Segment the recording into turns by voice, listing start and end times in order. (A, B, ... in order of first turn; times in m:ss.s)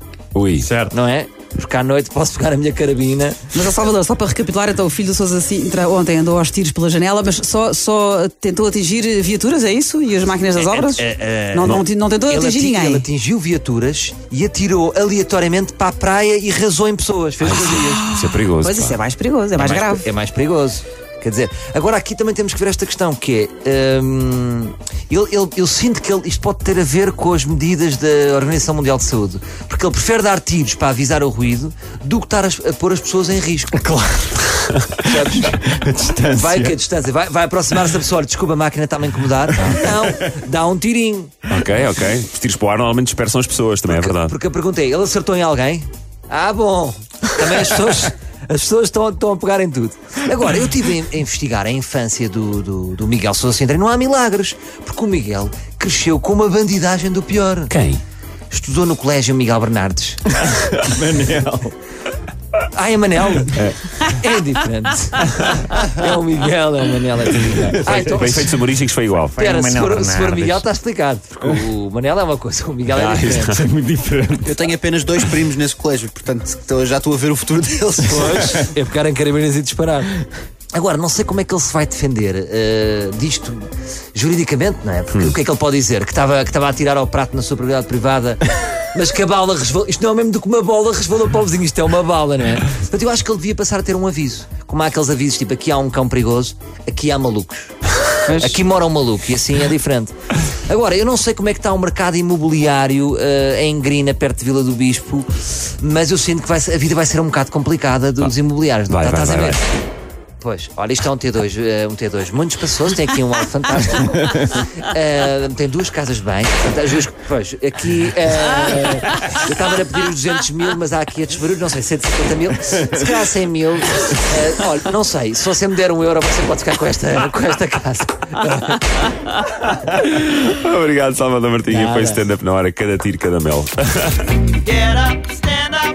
0:00.3-0:00.7 A
0:00.6-0:00.9 B
0:00.9-0:03.6 C
0:03.5-0:13.0 D
0:10.6-0:18.0 C
0:17.4-0:19.0 A
0:17.8-0:20.1 D
0:19.6-0:33.8 C
0:33.7-0:36.7 B
0:35.0-0:35.6 C
0:36.2-0:41.3 C
0:39.7-0:40.1 B
0:41.5-0:44.3 A
0:43.9-0:57.7 C
0:57.7-0:58.0 A
0:58.5-1:00.4 C
1:00.4-1:01.7 B
1:02.6-1:08.5 C
1:03.5-1:04.0 A
1:07.8-1:09.4 A
1:07.9-1:08.3 B
1:09.2-1:10.6 B
1:09.4-1:13.6 C
1:12.9-1:13.6 A
1:13.3-1:14.6 B
1:14.4-1:18.6 E
1:18.1-1:20.2 C
1:20.7-1:37.7 C
1:38.3-1:38.6 D
1:38.3-1:49.6 C
1:48.9-1:49.6 A
1:50.4-2:09.1 C
2:09.7-2:14.5 A
2:11.7-2:12.2 C
2:14.8-2:15.6 C
2:14.9-2:15.3 D